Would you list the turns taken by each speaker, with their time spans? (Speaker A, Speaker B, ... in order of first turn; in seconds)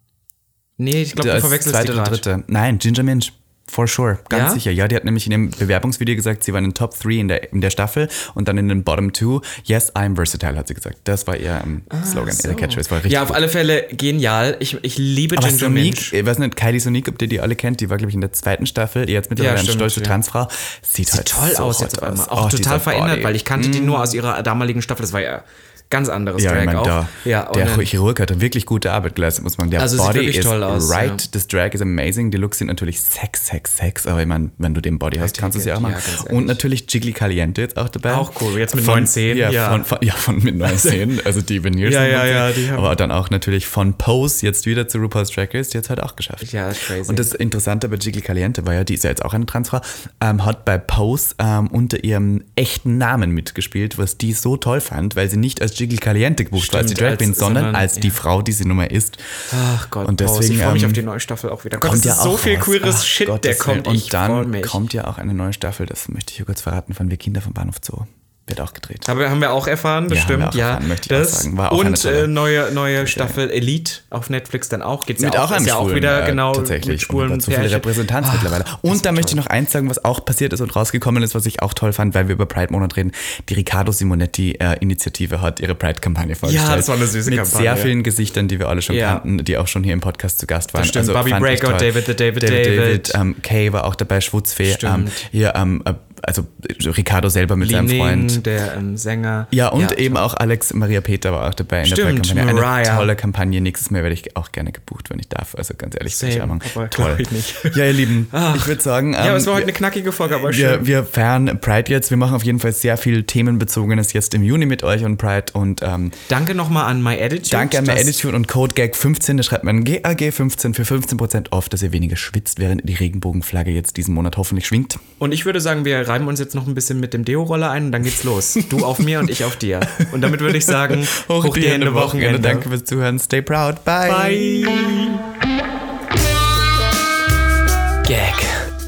Speaker A: 0.8-2.2, 4.3-4.6, 11.9-16.1, 19.4-20.1, 21.1-27.9, 29.8-31.2, 35.2-36.6, 38.1-39.9, 40.6-41.0, 41.8-42.9, 46.4-47.3, 56.6-58.2, 59.5-64.8, 69.0-79.4, 86.4-87.9, 88.9-89.2, 90.7-93.2, 94.6-95.2, 97.6-100.2, 101.8-103.1, 106.1-110.9, 116.3-118.2, 125.2-132.7, 134.0-135.2, 138.0-138.7
Speaker B: 1.1-13.4, 15.3-24.1, 26.4-46.5, 47.0-59.4, 60.0-61.0, 61.8-69.0, 70.1-72.3, 72.9-73.3, 75.2-98.4, 99.5-109.7, 110.3-116.2, 117.5-125.0, 128.6-129.3, 130.0-134.7